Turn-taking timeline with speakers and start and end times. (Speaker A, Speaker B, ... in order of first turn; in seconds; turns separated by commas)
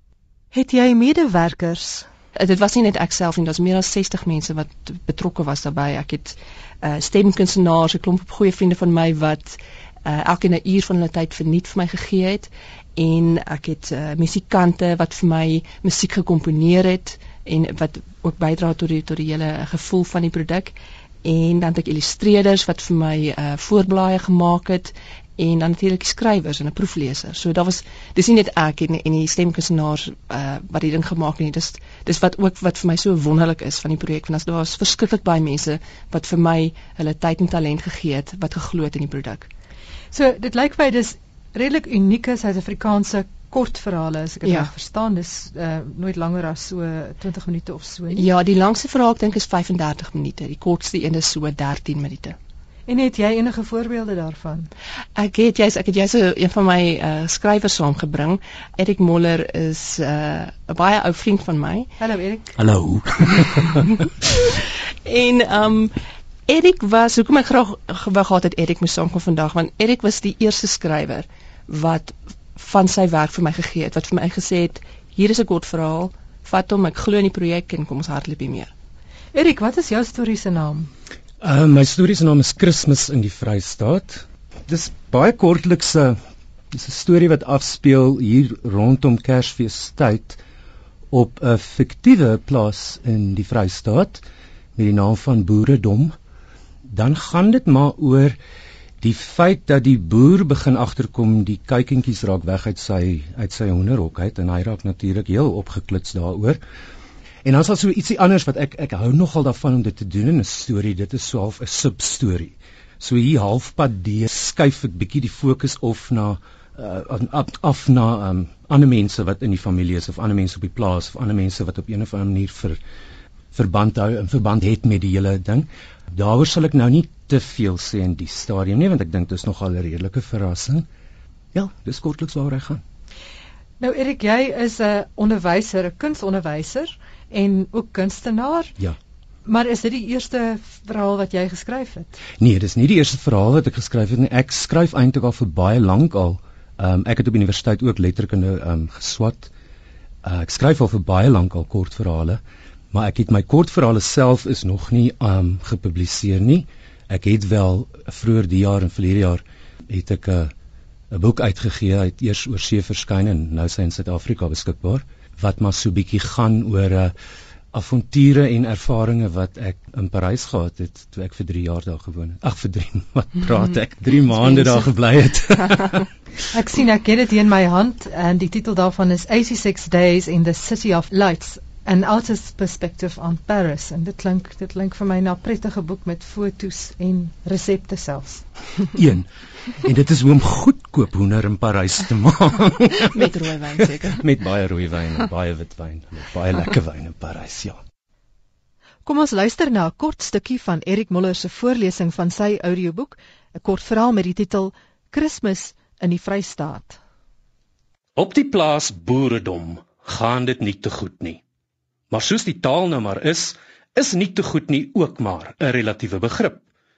Speaker A: 0.5-2.1, Speaker B: 2.4-39.5, Speaker A: 40.1-48.3, Speaker B: 48.1-52.4, Speaker A: 52.9-54.7, Speaker B: 55.1-61.9, Speaker A: 62.0-62.5, Speaker C: 62.6-64.0, Speaker B: 64.5-66.0, Speaker B: 66.5-78.7, Speaker A: 79.3-80.9, Speaker C: 81.4-86.2, Speaker C: 86.7-90.4, Speaker C: 91.1-94.2, Speaker C: 94.8-96.2, Speaker C: 96.8-98.4, Speaker C: 99.0-106.6, Speaker C: 107.4-122.8, Speaker C: 123.5-130.8, Speaker C: 131.5-132.8, Speaker A: 133.8-138.7, Speaker A: 139.4-142.2, Speaker C: 142.4-149.5, Speaker C: 150.2-152.4, Speaker C: 152.9-160.5, Speaker C: 161.1-167.1, Speaker C: 167.7-176.0, Speaker B: 174.4-174.9, Speaker A: 176.5-188.4, Speaker C: 188.9-189.3, Speaker C: 189.8-193.3, Speaker B: 193.1-194.2, Speaker C: 194.0-197.8, Speaker A: 199.1-207.0, Speaker D: 208.2-211.4, Speaker D: 212.1-216.6